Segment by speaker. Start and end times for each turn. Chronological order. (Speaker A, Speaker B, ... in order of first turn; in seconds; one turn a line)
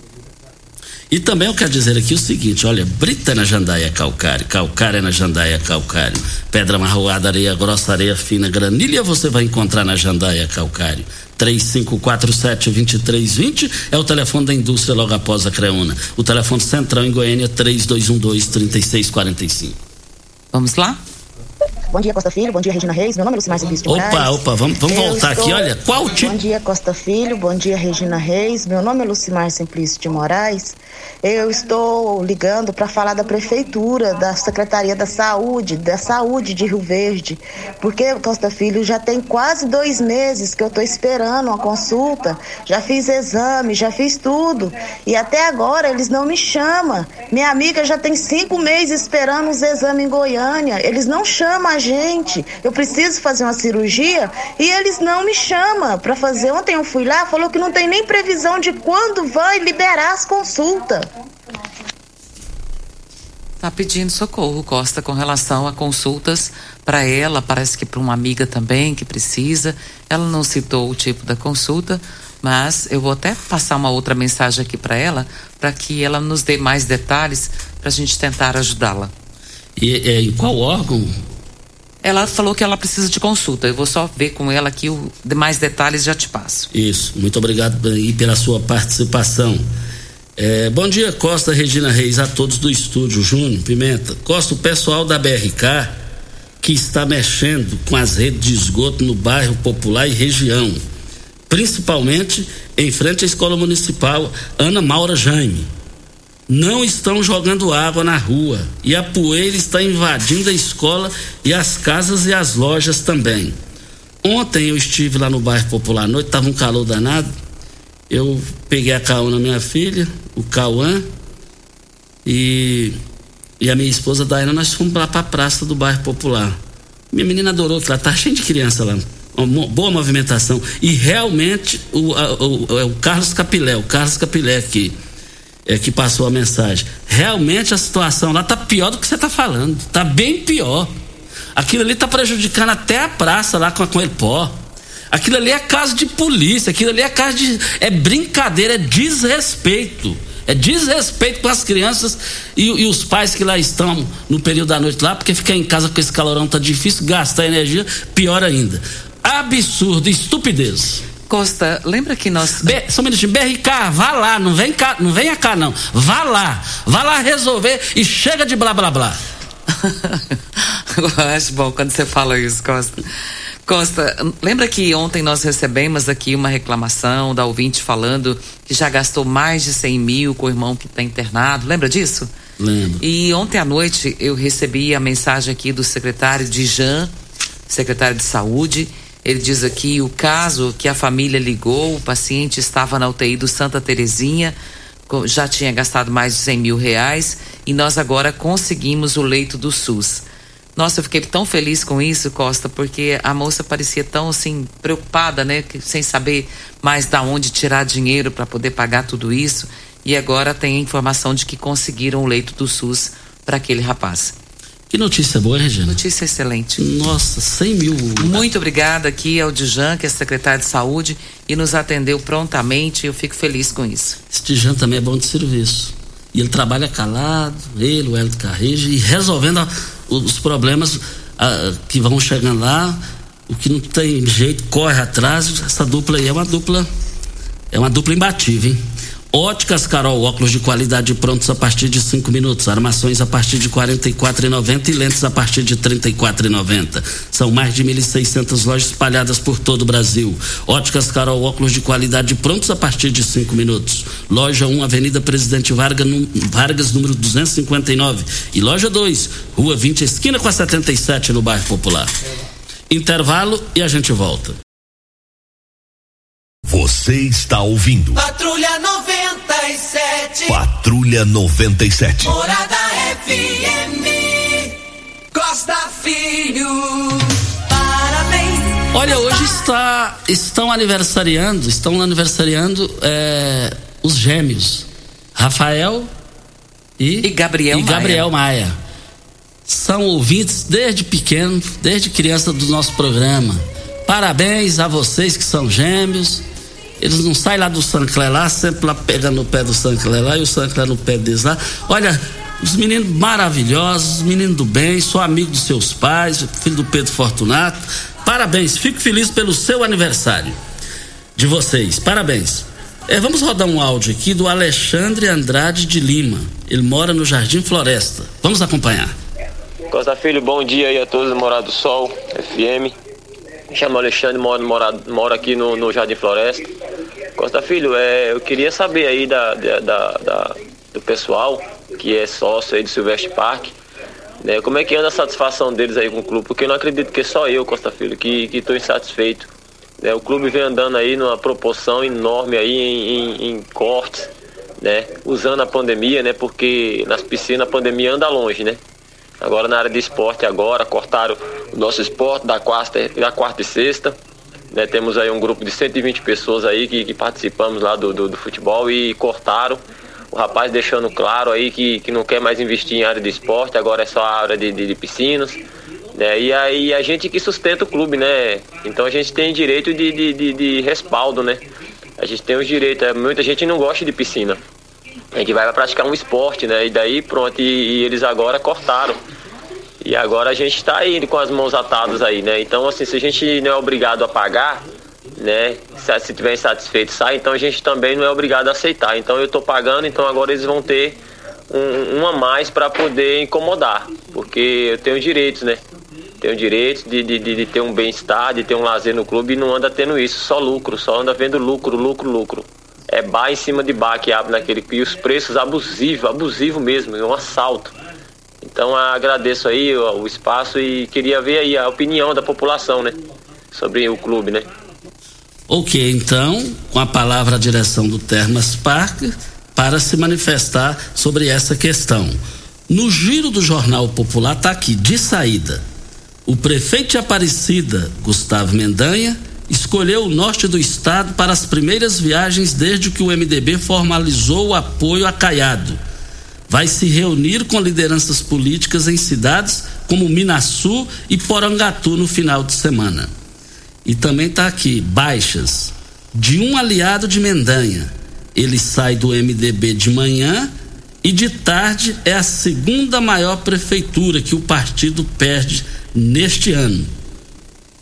Speaker A: 1.1-19.8
Speaker B: 20.5-21.0
Speaker C: 21.9-25.6
Speaker A: 23.9-26.4
Speaker C: 26.2-61.1
Speaker B: 63.6-79.1
Speaker A: 79.8-81.1
Speaker B: 82.0-86.7
Speaker A: 86.7-89.6
Speaker A: 90.4-96.0
Speaker A: 96.6-100.8
Speaker A: 101.5-105.7
Speaker A: 106.5-113.5
Speaker A: 114.2-117.3
Speaker A: 118.1-121.0
Speaker A: 122.2-123.0
Speaker A: 123.6-126.6
Speaker A: 127.1-134.9
Speaker A: 135.7-140.9
Speaker A: 141.6-144.5
Speaker A: 145.1-161.0
Speaker B: 161.3-162.8
Speaker A: 162.6-169.2
Speaker B: 169.7-173.0
Speaker B: 173.7-182.3
Speaker A: 182.6-183.0
Speaker B: 183.0-187.1
Speaker B: 187.7-194.6
Speaker B: 195.1-200.2
Speaker B: 200.8-214.3
Speaker A: 214.9-216.0
Speaker B: 215.9-216.8
Speaker A: 216.8-218.4
Speaker B: 218.2-224.2
Speaker A: 224.3-236.9
Speaker A: 237.7-262.1
Speaker A: 262.9-264.6
Speaker D: 266.6-268.2
Speaker E: 268.1-270.6
Speaker D: 270.5-272.3
Speaker E: 272.2-274.8
Speaker E: 275.3-279.2
Speaker A: 278.9-286.1
Speaker A: 287.0-288.8
Speaker B: 287.2-288.2
Speaker A: 289.6-296.4
Speaker A: 297.0-310.6
Speaker A: 311.4-319.1
Speaker F: 319.9-322.9
Speaker F: 323.7-326.7
Speaker F: 327.4-333.7
Speaker F: 334.4-339.5
Speaker F: 340.0-344.3
Speaker F: 344.8-348.8
Speaker F: 349.4-354.1
Speaker F: 354.7-365.6
Speaker F: 366.1-371.6
Speaker F: 372.2-374.6
Speaker F: 375.3-379.2
Speaker F: 380.0-384.8
Speaker F: 385.4-391.2
Speaker F: 391.7-395.8
Speaker F: 396.4-407.9
Speaker F: 408.6-413.2
Speaker F: 413.7-414.7
Speaker A: 415.7-422.4
Speaker A: 422.9-425.8
Speaker A: 426.4-436.0
Speaker A: 436.7-443.3
Speaker A: 444.0-450.7
Speaker A: 451.2-457.1